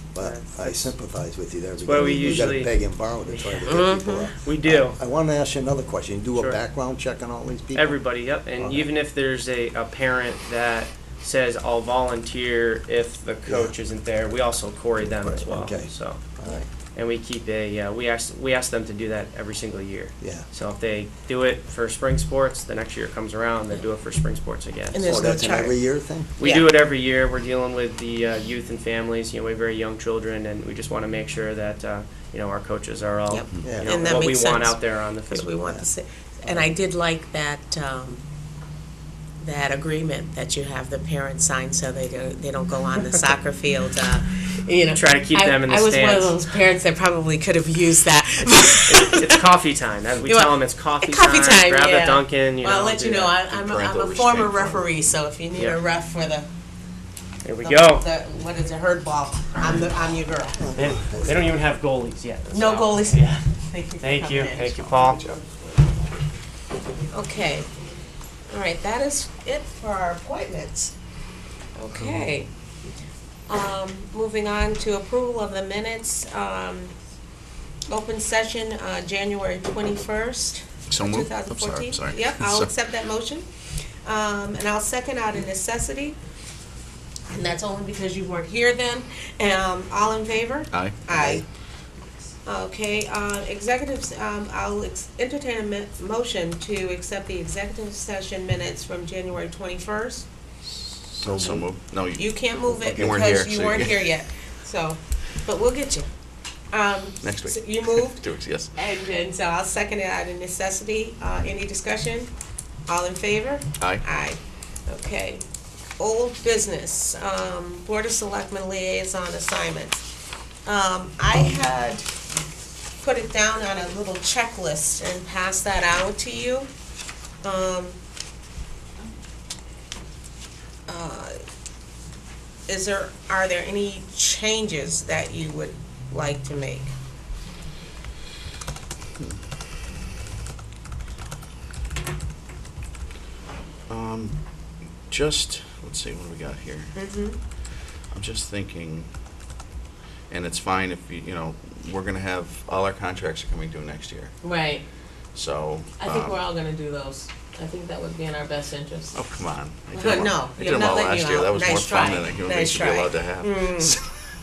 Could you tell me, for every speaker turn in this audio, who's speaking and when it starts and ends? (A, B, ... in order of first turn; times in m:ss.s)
0:00.1-0:08.9 A
0:00.2-0:00.9 B
0:01.8-0:05.0 B
0:01.9-0:02.5 C
0:03.7-0:04.3 C
0:06.3-0:06.6 B
0:07.8-0:16.2 B
0:13.5-0:13.8 A
0:15.0-0:16.7 A
0:16.9-0:25.3 B
0:20.2-0:20.5 A
0:24.9-0:25.9 C
0:25.0-0:26.3 A
0:26.4-0:35.5 B
0:26.4-0:26.7 C
0:33.3-0:38.2 C
0:33.6-0:33.9 A
0:39.4-0:49.4 C
0:44.9-0:46.4 B
0:48.9-0:53.4 B
0:50.2-0:56.5 C
0:53.5-0:55.1 D
0:55.6-0:55.8 B
0:57.4-0:58.1 B
0:57.6-1:00.7 C
1:00.6-1:01.6 A
1:00.7-1:03.4 B
1:02.5-1:05.2 C
1:04.0-1:05.2 B
1:07.1-1:07.7 C
1:08.5-1:10.9 C
1:11.8-1:12.5 C
1:13.5-1:16.9 C
1:17.9-1:23.5 C
1:20.9-1:22.7 D
1:24.0-1:26.2 C
1:27.3-1:31.4 C
1:30.7-1:31.0 D
1:31.1-1:31.4 A
1:32.4-1:40.3 C
1:40.7-1:44.1 D
1:41.2-1:41.7 A
1:42.2-1:46.1 C
1:46.7-1:48.2 C
1:47.2-1:48.7 D
1:48.8-1:52.3 C
1:52.9-1:55.4 C
1:53.8-1:54.0 D
1:56.0-2:00.0 C
2:00.7-2:02.1 C
2:03.0-2:06.7 C
2:07.4-2:08.0 C
2:10.9-2:11.4 C
2:12.7-2:16.9 C
2:23.9-2:24.4 D
2:25.1-2:27.0 D
2:26.9-2:27.4 C
2:28.1-2:29.1 D
2:30.3-2:34.3 D
2:34.4-2:34.8 C
2:35.4-2:36.4 D
2:36.0-2:39.2 C
2:39.1-2:44.1 D
2:39.9-2:44.0 C